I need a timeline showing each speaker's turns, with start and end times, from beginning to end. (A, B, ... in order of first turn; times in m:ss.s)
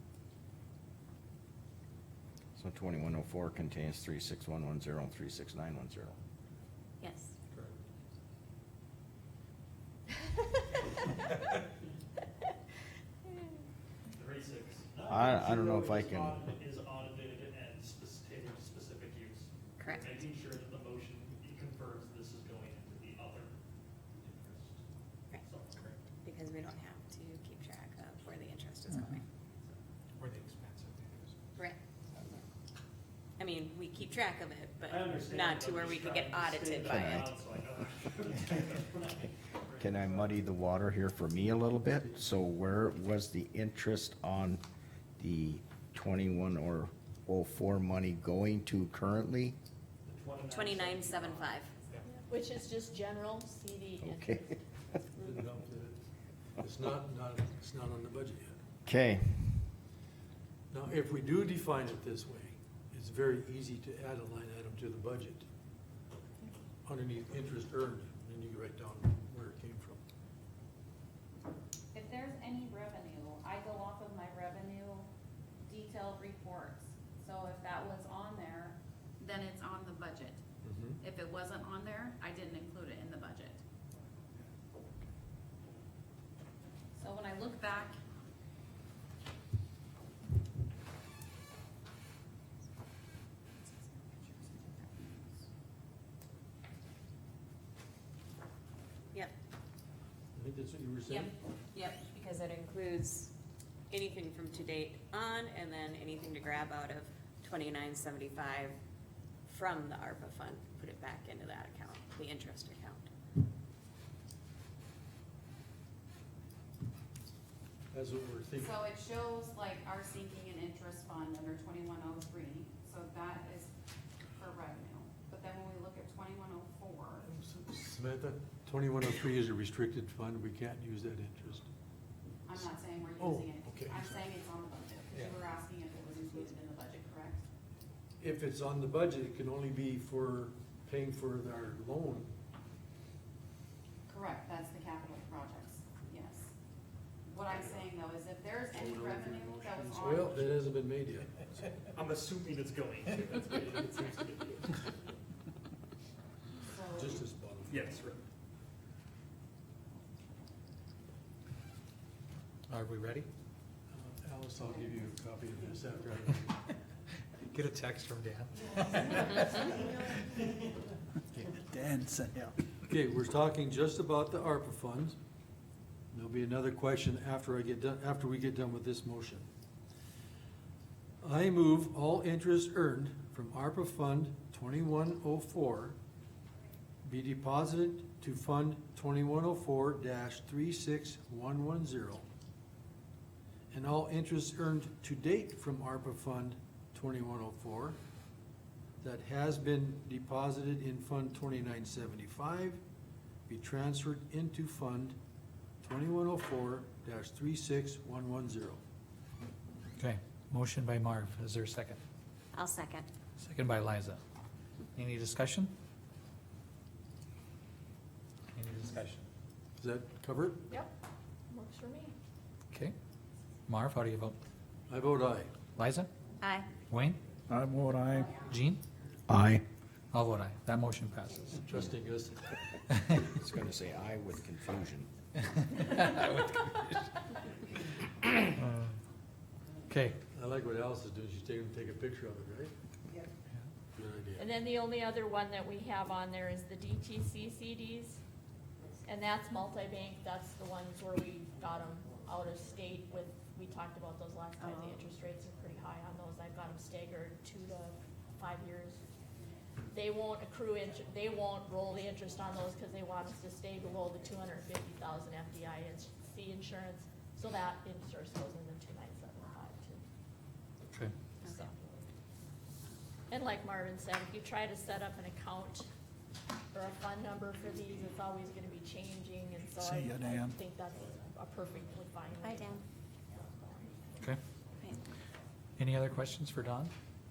0:02.6-0:06.2 A
0:07.0-0:07.3 B
0:14.2-0:23.6 C
0:15.1-0:16.4 A
0:19.8-0:20.2 B
0:24.2-0:24.8 C
0:25.5-0:25.8 C
0:26.2-0:29.2 B
0:33.4-0:37.3 B
0:34.8-0:40.4 C
0:39.8-0:44.6 A
0:45.2-0:49.6 A
0:50.0-0:52.0 C
0:50.5-0:51.7 B
0:52.0-0:54.6 D
0:54.0-0:54.5 A
0:55.2-0:56.0 E
0:56.6-0:58.6 E
0:58.9-0:59.7 A
1:00.7-1:05.5 E
1:06.8-1:10.0 E
1:11.9-1:15.1 F
1:15.6-1:20.4 F
1:20.6-1:21.0 E
1:21.0-1:23.6 F
1:27.0-1:28.0 F
1:33.6-1:35.3 F
1:40.4-1:41.4 E
1:41.1-1:43.3 B
1:43.9-1:48.8 B
1:49.5-1:53.1 B
1:57.9-1:58.8 E
1:58.6-2:03.7 F
2:04.4-2:07.2 F
2:07.2-2:11.7 E
2:12.5-2:17.4 F
2:13.2-2:14.3 E
2:18.2-2:22.3 E
2:24.1-2:26.5 F
2:27.3-2:30.6 F
2:27.6-2:27.8 C
2:28.7-2:31.7 E
2:31.9-2:34.9 C
2:36.7-2:37.2 F
2:36.9-2:38.0 E
2:37.7-2:38.2 C
2:42.7-2:43.3 G
2:43.9-2:46.6 E
2:47.4-2:49.4 G
2:51.4-2:52.5 H
2:52.9-2:55.2 E
2:56.1-2:59.5 E
3:01.2-3:06.0 E
3:07.0-3:12.3 E
3:13.7-3:18.0 E
3:19.0-3:22.8 E
3:23.5-3:25.2 E
3:25.8-3:28.8 E
3:30.0-3:32.0 G
3:32.5-3:33.1 B
3:33.4-3:34.2 G
3:35.0-3:35.7 G
3:38.5-3:39.3 G
3:39.8-3:40.7 E
3:41.5-3:42.1 D
3:43.7-3:44.4 G
3:44.9-3:45.5 E
3:45.8-3:46.1 G
3:46.4-3:46.7 B
3:46.9-3:47.2 G
3:47.5-3:48.3 H
3:48.4-3:48.8 G
3:49.3-3:49.6 A
3:50.1-3:51.6 G
3:51.6-3:52.7 E
3:53.4-3:55.1 A
3:55.6-3:57.1 G
3:59.9-4:00.2 G
4:00.3-4:02.7 E
4:04.0-4:04.5 E
4:04.4-4:08.2 D
4:09.0-4:19.0 D
4:19.9-4:30.0 D
4:31.4-4:31.7 B
4:33.3-4:35.9 D
4:36.7-4:42.8 D
4:39.9-4:40.6 H
4:42.4-4:42.8 B
4:43.4-4:44.0 D
4:45.8-4:46.9 G